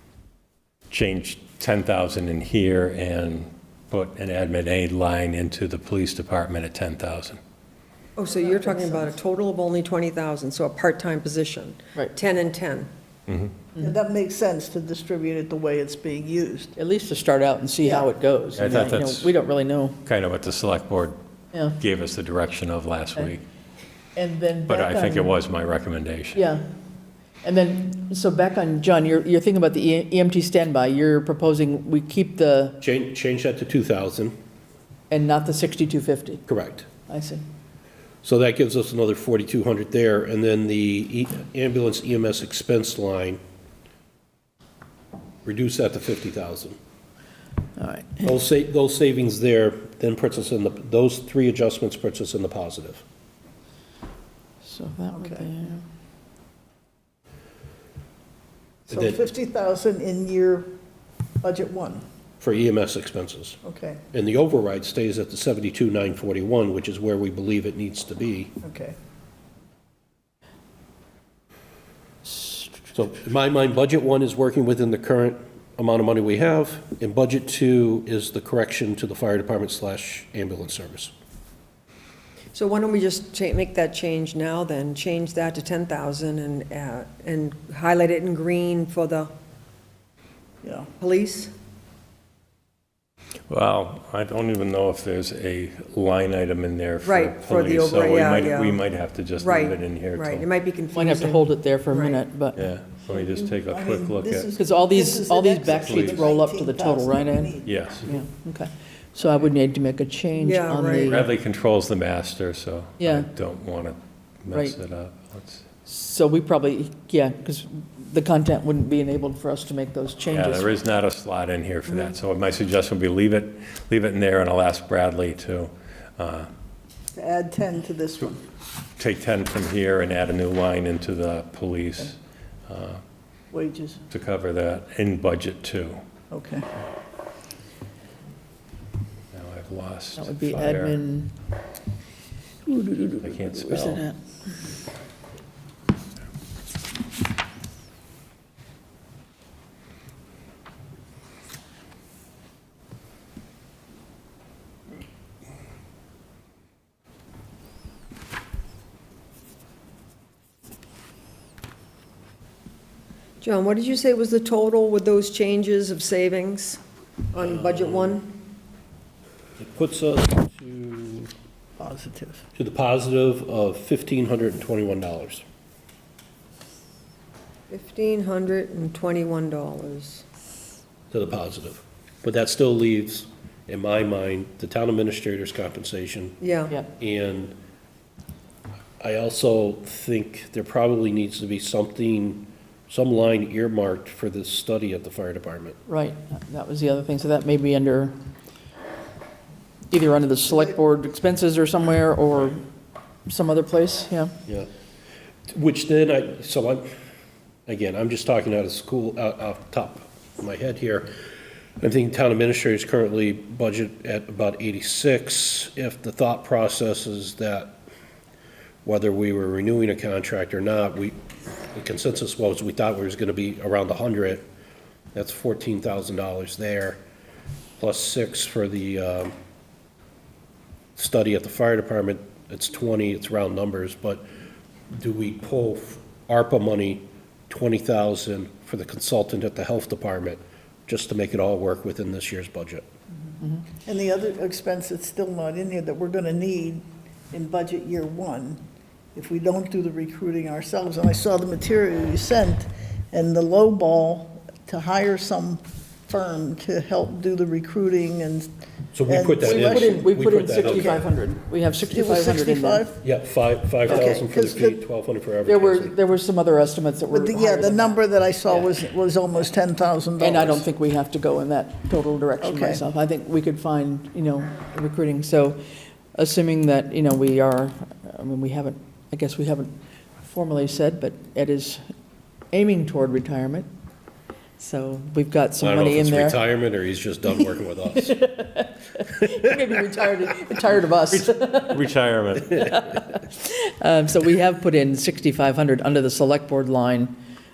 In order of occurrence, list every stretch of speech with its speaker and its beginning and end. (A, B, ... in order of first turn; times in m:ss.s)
0:00.9-0:07.4 A
0:08.2-0:12.9 B
0:08.3-0:09.2 C
0:13.3-0:13.5 A
0:13.8-0:16.8 C
0:16.8-0:20.0 D
0:18.6-0:19.4 A
0:20.0-0:21.2 A
0:21.5-0:21.8 D
0:21.8-0:23.4 A
0:24.2-0:25.4 D
0:24.7-0:26.4 A
0:26.3-0:26.7 D
0:27.4-0:32.8 D
0:32.8-0:34.4 E
0:35.1-0:36.4 D
0:36.5-0:36.9 E
0:37.0-0:37.4 D
0:38.2-0:43.4 E
0:45.4-0:46.8 E
0:47.8-0:48.4 D
0:48.2-0:53.0 E
0:54.6-0:55.8 D
0:55.2-0:55.5 C
0:58.9-1:00.7 C
0:58.9-0:59.2 E
1:01.4-1:02.0 C
1:02.4-1:03.6 E
1:03.6-1:04.0 C
1:04.1-1:08.5 E
1:08.6-1:09.0 C
1:12.9-1:21.1 E
1:22.5-1:29.3 B
1:30.6-1:30.9 C
1:31.0-1:31.5 B
1:33.5-1:40.5 A
1:37.0-1:38.8 B
1:39.4-1:42.2 B
1:40.9-1:42.7 D
1:42.6-1:44.5 A
1:43.1-1:48.1 C
1:44.6-1:51.3 D
1:45.8-1:46.3 A
1:47.6-1:48.1 A
1:50.4-1:51.2 B
1:51.0-1:55.7 A
1:53.0-1:53.3 D
1:54.5-1:54.8 D
1:55.8-2:00.8 D
2:00.3-2:06.5 A
2:01.9-2:02.1 B
2:07.1-2:08.4 C
2:09.0-2:13.0 A
2:13.5-2:14.0 C
2:14.1-2:16.0 A
2:16.3-2:16.7 C
2:19.3-2:21.0 A
2:20.2-2:21.3 D
2:22.7-2:24.2 D
2:23.2-2:24.0 A
2:43.4-2:46.8 B
2:47.3-2:48.3 B
2:47.4-2:48.2 E
2:49.6-2:51.3 E
2:51.8-2:52.4 C
2:52.6-2:55.4 E
2:57.7-3:00.2 B
3:01.1-3:07.6 E
3:06.4-3:06.8 B
3:09.0-3:15.8 E
3:15.9-3:18.1 D
3:19.9-3:22.6 D
3:23.3-3:24.3 D
3:25.5-3:26.9 E
3:27.7-3:31.1 E
3:31.8-3:37.8 E
3:38.8-3:41.2 E
3:41.7-3:44.5 E
3:45.1-3:47.0 E
3:47.8-3:49.4 E
3:51.0-3:54.2 E
3:54.9-4:02.9 E
4:03.8-4:08.6 C
4:09.2-4:18.5 C
4:18.9-4:21.0 E
4:19.0-4:21.1 C
4:19.4-4:22.9 D
4:21.9-4:23.0 C
4:23.0-4:26.0 E
4:23.9-4:24.8 C
4:25.4-4:28.7 D
4:27.1-4:30.6 C
4:30.2-4:35.6 D
4:32.4-4:32.8 C
4:36.2-4:41.8 D
4:42.5-4:43.7 D
4:44.6-4:46.5 D
4:45.6-4:48.2 E
4:47.4-4:51.8 D
4:51.1-4:52.7 A
4:52.6-4:57.2 D